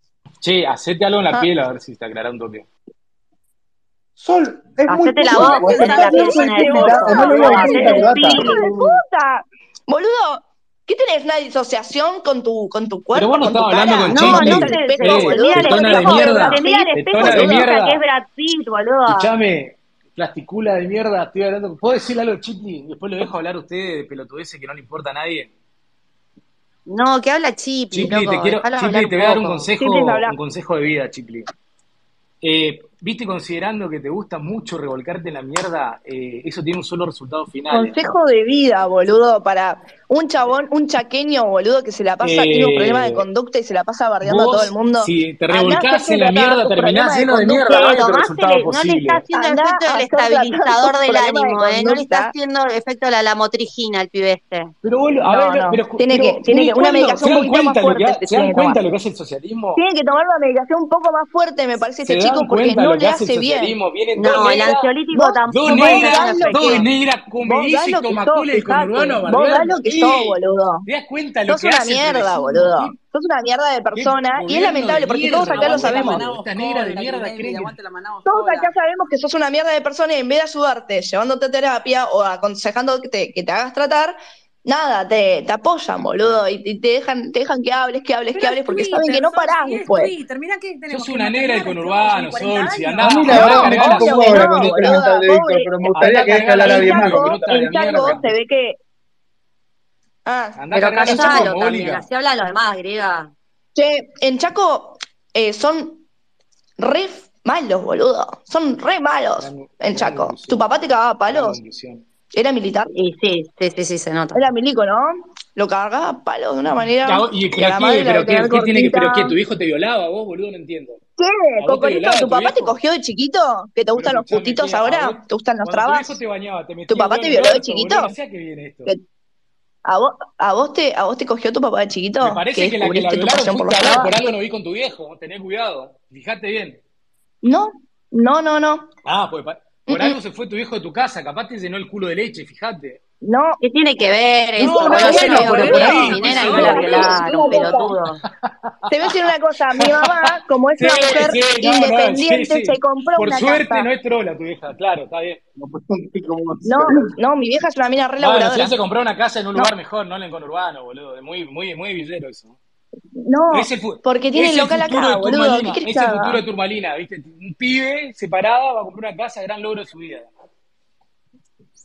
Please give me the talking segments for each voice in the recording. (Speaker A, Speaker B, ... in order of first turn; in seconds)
Speaker A: 0.4-2.7, 13.1-18.0, 19.1-25.5, 27.9-31.5, 32.4-38.0, 42.2-43.2, 44.2-49.2, 54.8-59.8, 62.0-64.9, 65.5-73.0, 73.9-77.7, 86.1-86.4, 90.9-95.0, 95.9-98.3, 100.6-102.0, 109.4-110.6, 111.3-112.0, 117.0-121.0, 121.6-122.8, 123.9-128.9, 132.2-136.8, 139.1-143.0, 144.6-147.8, 149.0-155.4, 158.2-162.6, 163.5-170.3
Speaker B: 4.2-9.0, 93.0-97.4
Speaker C: 4.9-8.6, 14.1-19.3, 26.9-29.7, 47.7-54.7, 64.2-66.8, 100.7-103.3, 112.9-114.5, 143.6-148.2
Speaker D: 5.3-17.6, 29.8-30.3, 37.7-48.0, 49.3-52.3, 55.2-58.8, 59.8-63.7, 65.1-66.8, 67.4-70.8, 71.5-76.3, 78.2-90.1, 93.3-98.8, 100.2-101.5, 103.7-106.0, 106.8-111.6, 112.3-112.9, 114.3-119.3, 121.2-126.2, 126.9-128.1, 129.8-134.1, 137.4-138.9, 139.9-140.2, 143.2-143.6, 144.6-147.9, 148.9-153.9, 156.6-158.7, 163.2-166.4
Speaker E: 75.3-78.7, 88.3-94.2, 144.7-147.8